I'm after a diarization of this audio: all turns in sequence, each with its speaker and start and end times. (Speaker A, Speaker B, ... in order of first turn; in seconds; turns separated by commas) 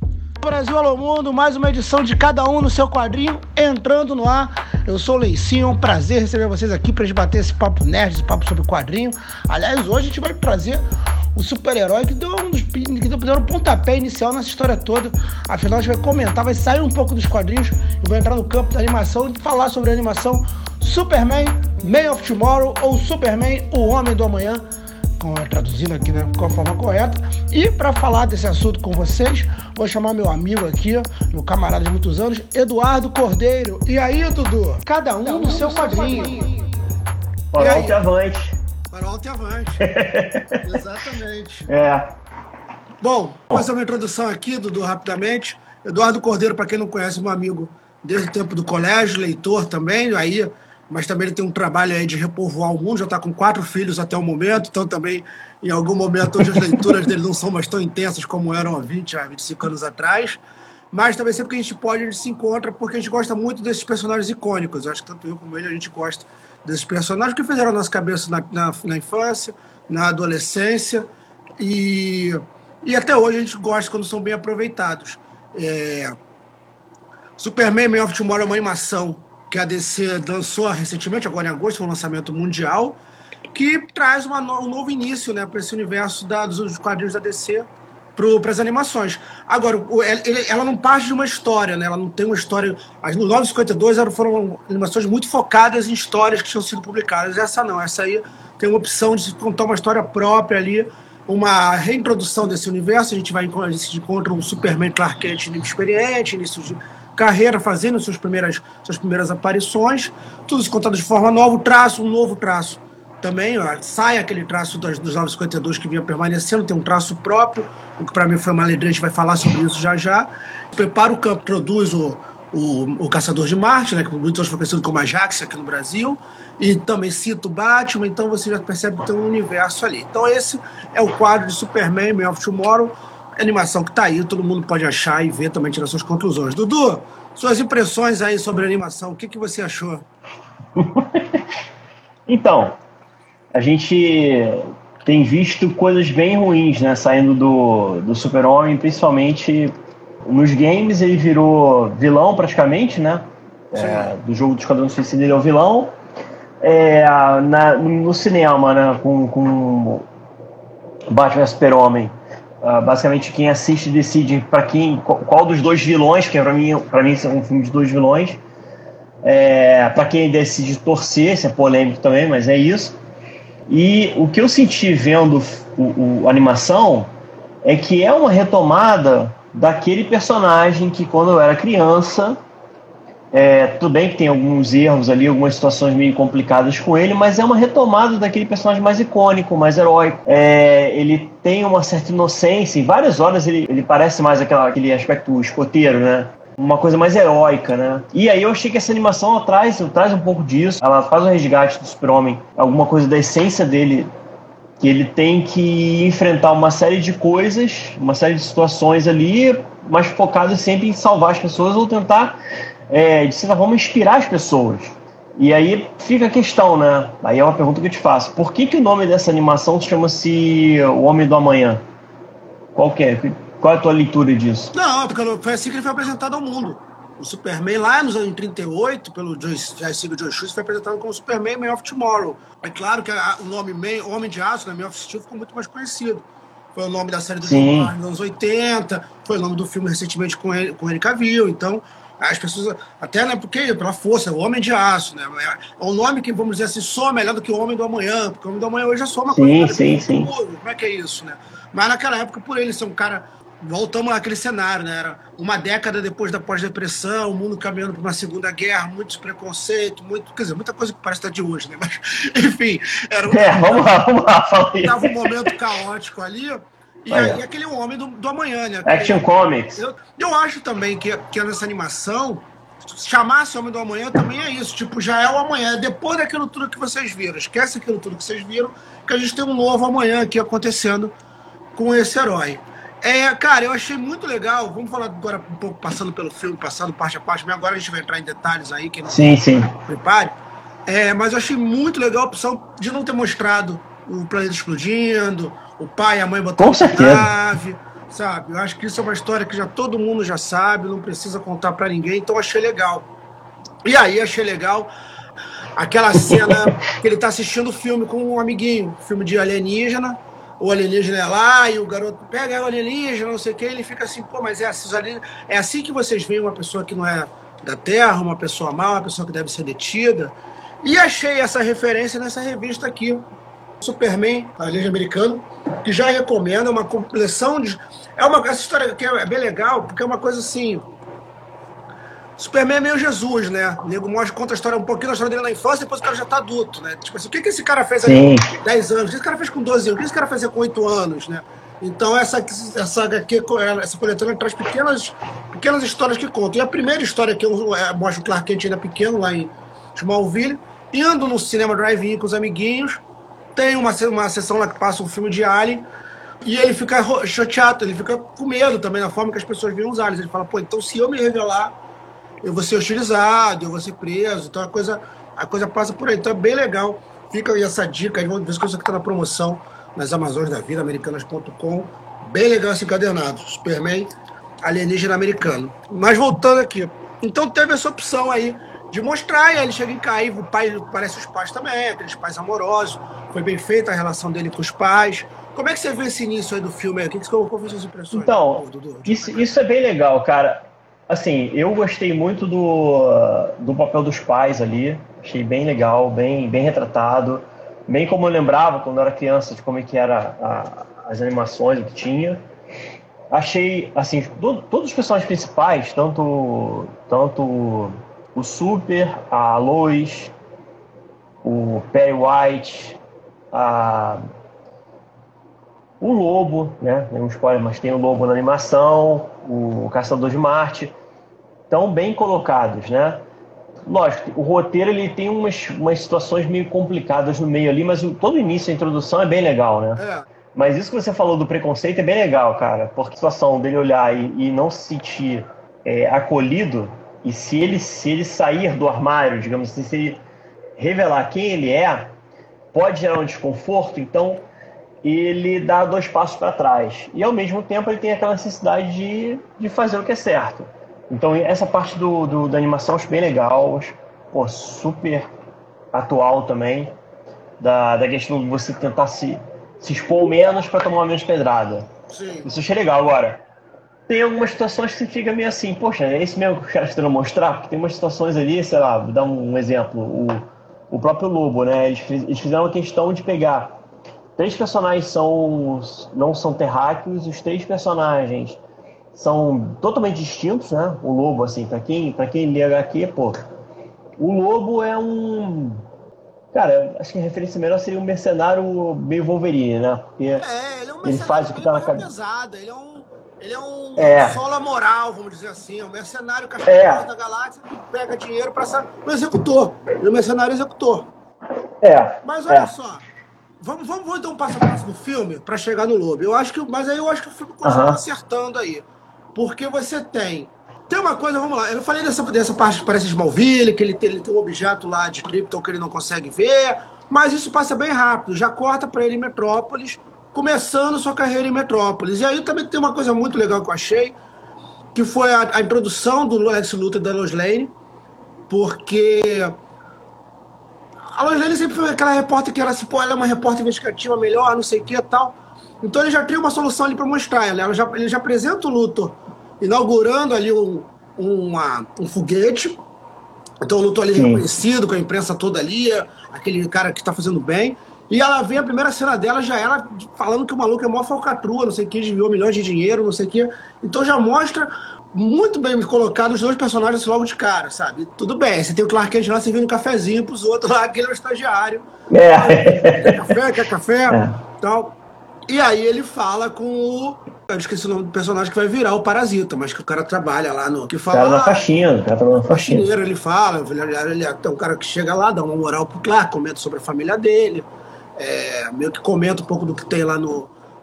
Speaker A: 0.4-10.8, Speaker A: 11.3-24.6, Speaker A: 25.2-36.5, Speaker B: 37.5-38.5, Speaker A: 37.6-38.0, Speaker A: 38.9-39.9, Speaker B: 39.8-40.8, Speaker A: 40.6-41.7, Speaker B: 41.7-42.1, Speaker A: 43.0-60.4, Speaker A: 60.9-71.1, Speaker A: 71.6-76.2, Speaker A: 77.4-83.0, Speaker A: 83.5-140.0, Speaker B: 140.8-141.4, Speaker B: 142.3-142.8, Speaker B: 143.5-149.7, Speaker B: 150.2-155.9, Speaker A: 153.7-154.1, Speaker B: 156.6-160.1, Speaker B: 161.1-168.4, Speaker B: 169.2-173.0, Speaker B: 173.7-177.1, Speaker B: 177.6-182.4, Speaker B: 183.3-204.1, Speaker B: 204.8-212.4, Speaker B: 212.9-221.8, Speaker B: 222.7-224.7, Speaker A: 224.7-263.9, Speaker B: 237.4-237.9, Speaker B: 249.3-250.3, Speaker B: 263.3-265.5, Speaker A: 264.8-269.2, Speaker B: 267.1-267.4, Speaker B: 268.8-269.8, Speaker A: 269.7-281.1, Speaker A: 281.8-290.3, Speaker B: 289.1-289.7, Speaker A: 290.9-303.1, Speaker B: 296.6-297.3, Speaker A: 303.8-304.9, Speaker A: 305.8-323.2, Speaker B: 306.3-306.6, Speaker A: 323.8-330.8, Speaker A: 332.4-353.0, Speaker B: 338.0-338.5, Speaker A: 353.6-355.8, Speaker A: 356.4-361.7, Speaker A: 362.4-374.1, Speaker A: 374.6-389.5, Speaker B: 388.1-402.4, Speaker B: 403.3-410.3, Speaker B: 411.4-413.0, Speaker B: 413.5-414.2, Speaker B: 416.0-420.9, Speaker B: 421.7-423.2, Speaker B: 423.9-430.0, Speaker A: 430.0-430.2, Speaker B: 430.5-440.2, Speaker B: 440.8-442.1, Speaker B: 442.7-444.4, Speaker B: 445.0-455.2, Speaker B: 455.9-456.9, Speaker B: 457.6-461.9, Speaker A: 462.1-462.5, Speaker B: 462.4-463.4, Speaker B: 464.1-473.8, Speaker B: 474.4-478.6, Speaker B: 479.1-483.4, Speaker B: 484.2-485.8, Speaker B: 486.5-490.4, Speaker A: 490.4-501.1, Speaker B: 491.0-492.1, Speaker B: 494.0-494.4, Speaker B: 496.6-497.0, Speaker B: 501.8-502.7, Speaker A: 502.2-503.0, Speaker A: 503.6-524.1, Speaker B: 507.6-508.0, Speaker A: 524.9-527.7, Speaker A: 528.5-529.6, Speaker A: 531.1-542.8, Speaker A: 543.6-564.9, Speaker B: 544.1-544.4, Speaker B: 562.1-563.4, Speaker B: 564.1-564.4, Speaker A: 565.5-571.6, Speaker B: 571.1-572.9, Speaker A: 572.4-580.5